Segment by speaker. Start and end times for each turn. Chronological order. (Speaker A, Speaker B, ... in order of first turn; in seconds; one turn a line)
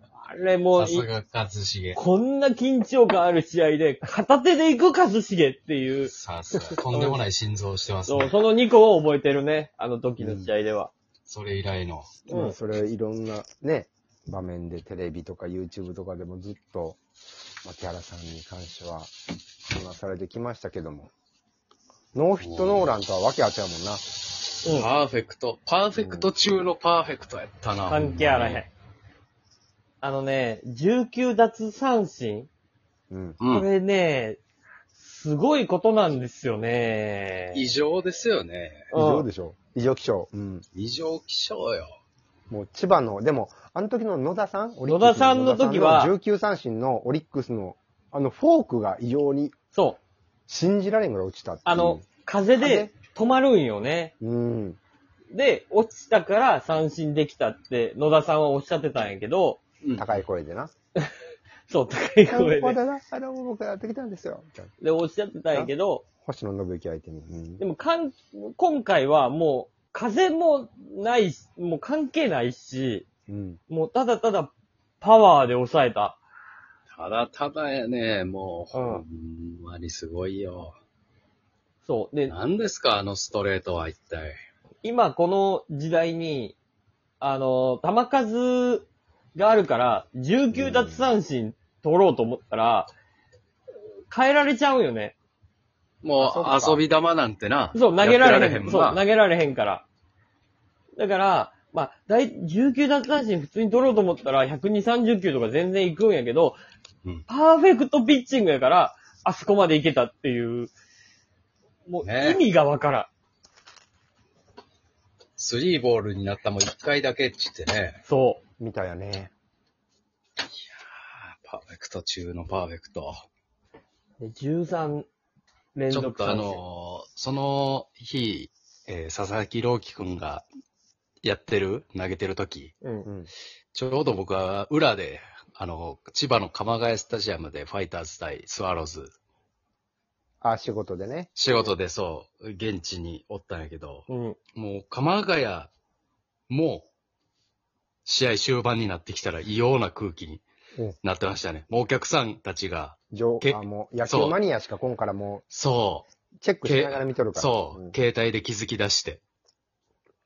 Speaker A: 0.2-1.1
Speaker B: 0.8-2.0
Speaker A: 2.0-6.1
Speaker B: 6.1-8.3
Speaker A: 6.9-7.2
Speaker A: 8.1-10.9
Speaker C: 10.2-10.5
Speaker B: 11.3-12.3
Speaker C: 12.3-17.0
Speaker A: 12.3-12.5
Speaker C: 17.6-19.1
Speaker C: 19.7-21.1
Speaker C: 22.1-24.0
Speaker B: 22.4-22.9
Speaker A: 24.6-24.9
Speaker B: 24.6-28.6
Speaker C: 26.0-26.3
Speaker A: 27.9-28.7
Speaker A: 30.0-32.5
Speaker C: 33.1-33.4
Speaker B: 33.4-33.7
Speaker A: 33.5-34.4
Speaker A: 35.0-37.6
Speaker B: 37.5-38.9
Speaker A: 38.9-39.3
Speaker C: 38.9-40.6
Speaker B: 40.7-41.9
Speaker C: 42.5-49.5
Speaker A: 44.9-46.2
Speaker A: 49.7-50.0
Speaker C: 50.5-52.0
Speaker A: 51.7-54.1
Speaker C: 52.6-52.9
Speaker C: 54.2-54.8
Speaker A: 55.3-59.6
Speaker B: 59.8-60.2
Speaker C: 60.0-60.7
Speaker A: 61.7-62.8
Speaker C: 62.3-64.7
Speaker A: 64.8-66.0
Speaker C: 66.2-67.6
Speaker A: 67.6-73.1
Speaker C: 73.3-73.6
Speaker A: 73.7-76.2
Speaker B: 76.9-80.7
Speaker A: 78.7-79.0
Speaker A: 81.8-82.3
Speaker B: 82.3-84.4
Speaker A: 84.8-86.6
Speaker A: 87.2-92.9
Speaker C: 90.5-91.1
Speaker A: 94.1-95.2
Speaker B: 96.0-99.0
Speaker C: 96.2-96.8
Speaker A: 97.7-99.8
Speaker A: 101.0-106.6
Speaker A: 107.3-110.7
Speaker A: 111.9-113.1
Speaker B: 112.0-112.4
Speaker B: 115.4-118.0
Speaker A: 118.1-118.4
Speaker C: 118.6-119.3
Speaker B: 120.5-123.1
Speaker A: 124.2-125.1
Speaker A: 125.8-126.6
Speaker B: 125.9-130.4
Speaker B: 131.2-132.7
Speaker C: 133.1-133.3
Speaker B: 133.7-139.1
Speaker C: 140.4-141.7
Speaker B: 141.3-145.7
Speaker A: 144.1-144.4
Speaker B: 146.5-146.9
Speaker B: 148.1-150.4
Speaker B: 151.0-154.4
Speaker C: 153.1-155.4
Speaker B: 155.5-156.1
Speaker C: 156.4-157.9
Speaker B: 156.6-159.2